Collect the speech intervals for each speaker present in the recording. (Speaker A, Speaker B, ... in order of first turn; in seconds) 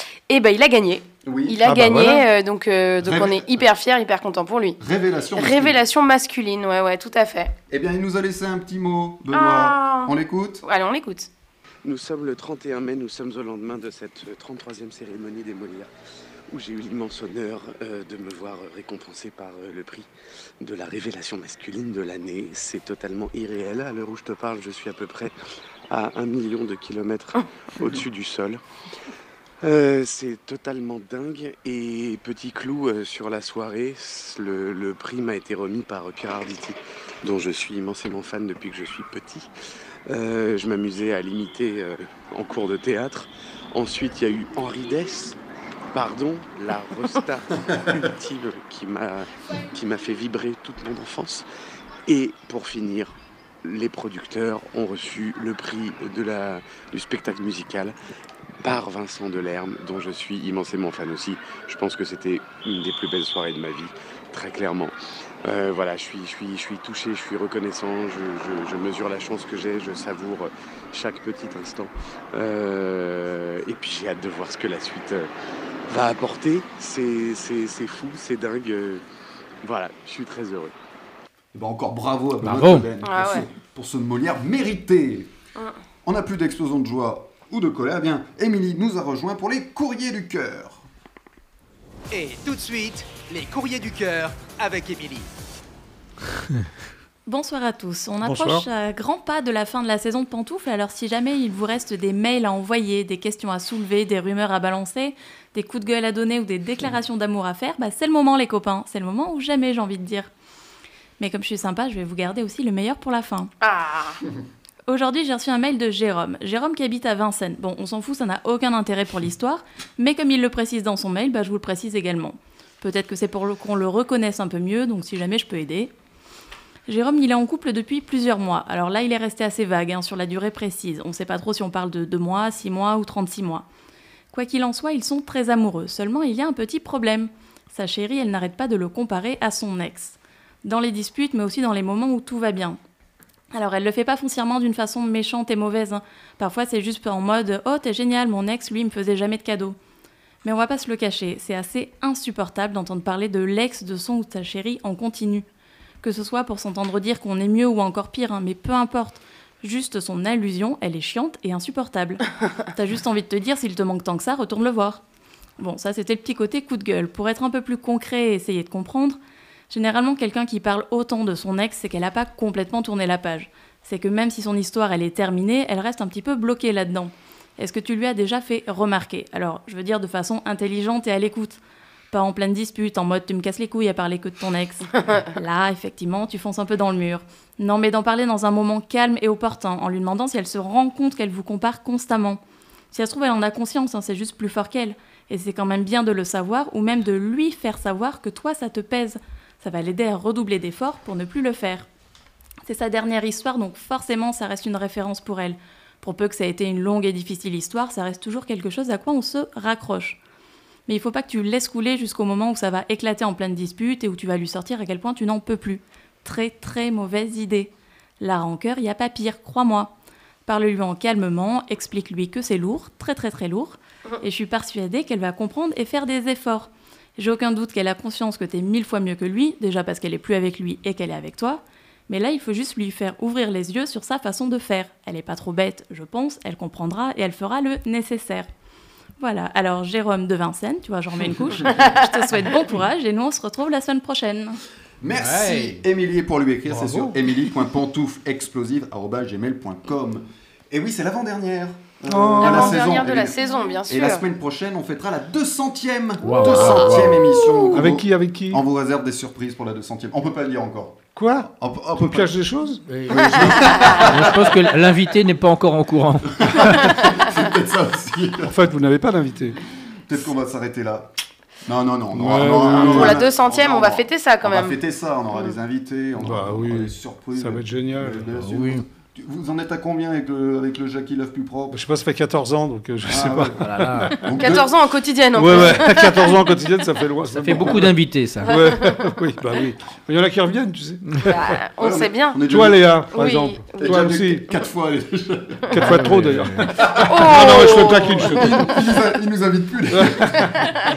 Speaker A: 0.3-4.8, 5.4-7.5, 9.3-10.1, 10.6-11.3, 83.0-83.5, 113.6-114.2, 252.4-254.2, 257.4-257.8, 263.2-264.0, 272.8-274.8, 284.4-286.4, 291.2-292.4, 293.1-294.0, 297.0-298.6
Speaker B: 1.2-1.7, 3.0-3.5, 4.8-5.8, 7.7-10.7, 81.5-85.3, 86.0-90.8, 245.0-262.3, 263.1-264.5, 266.4-268.6, 270.1-271.1, 271.7-281.8, 283.1-283.6, 284.2-284.7, 291.8-293.0, 293.8-295.8, 296.7-300.6
Speaker C: 1.6-2.2, 98.2-98.7, 252.1-252.8, 257.7-258.6, 261.2-262.8, 268.4-269.6, 272.1-273.2, 276.2-278.3, 281.7-284.3, 285.4-291.2, 292.4-294.5, 295.7-298.8, 299.9-300.4
Speaker D: 11.8-15.9, 16.5-20.1, 20.6-25.3, 25.9-28.6, 29.6-39.5, 40.1-45.4, 45.9-51.5, 52.1-58.0, 58.6-64.9, 65.5-75.3, 75.9-79.0, 79.6-80.7
Speaker E: 82.4-82.9, 245.1-245.8, 246.7-247.1, 256.2-257.4, 262.9-263.4, 263.9-266.7, 272.3-272.9, 278.4-278.8, 283.6-284.2, 287.3-288.6, 295.8-296.7
Speaker F: 92.1-95.3
Speaker G: 97.3-110.3, 111.2-113.5, 114.9-125.9, 126.9-133.6, 134.3-142.8, 143.5-149.8, 150.4-155.4, 156.0-165.0, 165.6-169.2, 169.7-181.6, 182.1-192.4, 192.9-201.9, 202.7-210.2, 210.9-219.9, 220.4-238.5, 239.2-244.6